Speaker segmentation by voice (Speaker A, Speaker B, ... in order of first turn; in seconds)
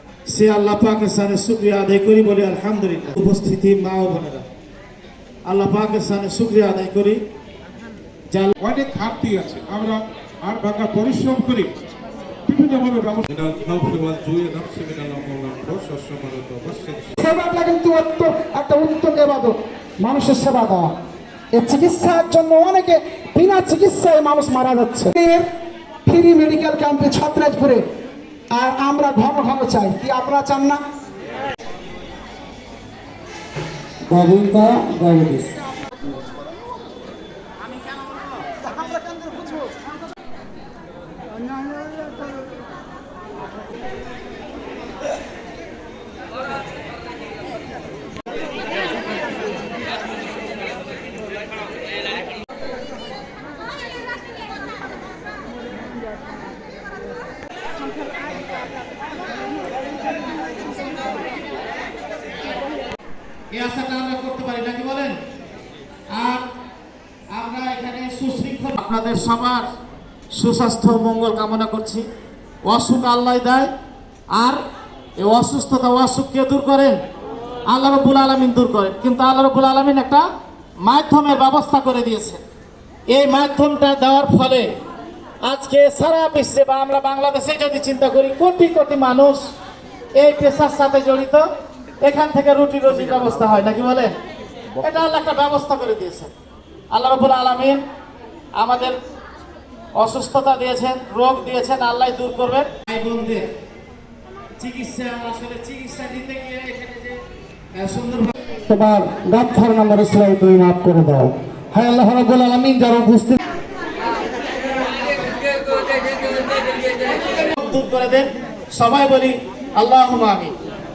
Speaker A: 0.3-4.4, 5.5-7.2, 63.5-65.2, 66.1-66.5, 67.3-69.7, 70.3-72.1, 72.6-73.7, 74.3-74.6, 75.2-77.0, 77.7-80.2, 80.8-82.4, 83.1-84.7, 85.4-89.4, 90.2-91.4, 92.0-94.1, 94.8-96.3, 96.9-97.8, 98.6-99.0, 100.0-103.5, 104.6-107.2, 107.7-108.3, 117.2-120.5
Speaker B: 8.6-11.7, 12.5-17.2
Speaker C: 17.2-20.9, 21.5-25.5, 26.1-27.8, 28.5-30.8
Speaker D: 34.1-35.5, 108.7-113.4